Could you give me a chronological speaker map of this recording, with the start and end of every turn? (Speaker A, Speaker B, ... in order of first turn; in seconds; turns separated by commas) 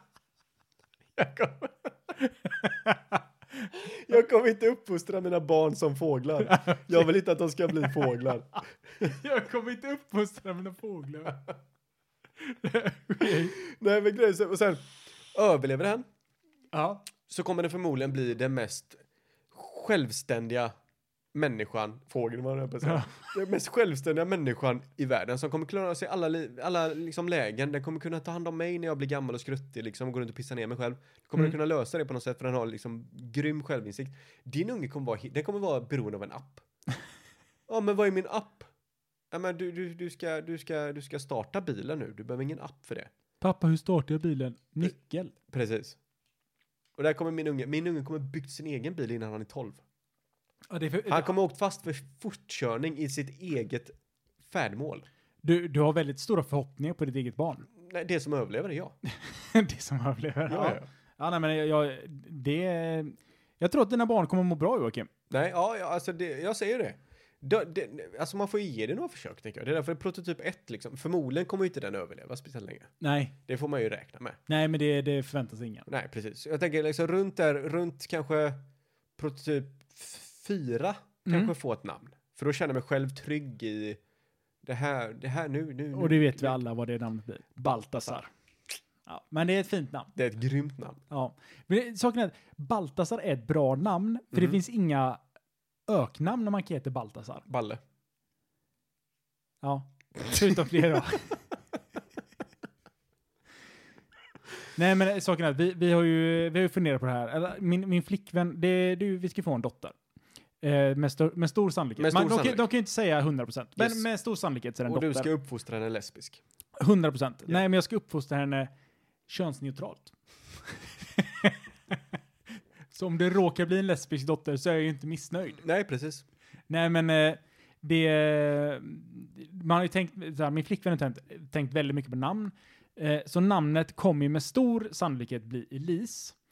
Speaker A: 1.2-2.0, Speaker B: 2.5-3.2, Speaker A: 3.7-9.1, Speaker B: 6.4-7.0, Speaker B: 9.0-11.4, Speaker B: 12.4-13.6, Speaker A: 13.2-16.1, Speaker B: 16.7-17.1, Speaker A: 17.3-19.0, Speaker A: 19.5-20.7, Speaker A: 21.3-36.6, Speaker B: 22.8-23.3, Speaker A: 37.7-38.7, Speaker A: 39.3-43.1, Speaker B: 43.4-45.3, Speaker A: 45.5-46.0, Speaker A: 47.0-49.8, Speaker B: 50.7-51.4, Speaker A: 51.1-55.1, Speaker B: 55.4-57.7, Speaker A: 57.8-59.0, Speaker B: 59.1-65.1, Speaker A: 60.5-60.9, Speaker A: 65.3-72.9, Speaker B: 73.0-73.3, Speaker A: 73.5-74.4, Speaker B: 74.5-75.9, Speaker A: 75.9-78.6, Speaker A: 79.2-84.0, Speaker B: 81.3-81.5, Speaker A: 84.6-86.6, Speaker B: 85.9-88.3, Speaker A: 87.7-88.2, Speaker B: 89.1-90.1, Speaker A: 90.2-91.0, Speaker B: 91.1-95.2, Speaker A: 94.3-94.6, Speaker B: 95.9-97.5, Speaker A: 97.5-97.8, Speaker B: 99.6-101.4, Speaker B: 104.8-110.0, Speaker B: 110.6-115.3, Speaker A: 112.0-112.7, Speaker A: 113.8-114.0, Speaker A: 114.9-116.4, Speaker B: 116.8-118.7, Speaker B: 119.3-120.1, Speaker B: 121.2-122.0, Speaker B: 122.9-125.6, Speaker A: 125.6-126.2, Speaker B: 126.7-136.4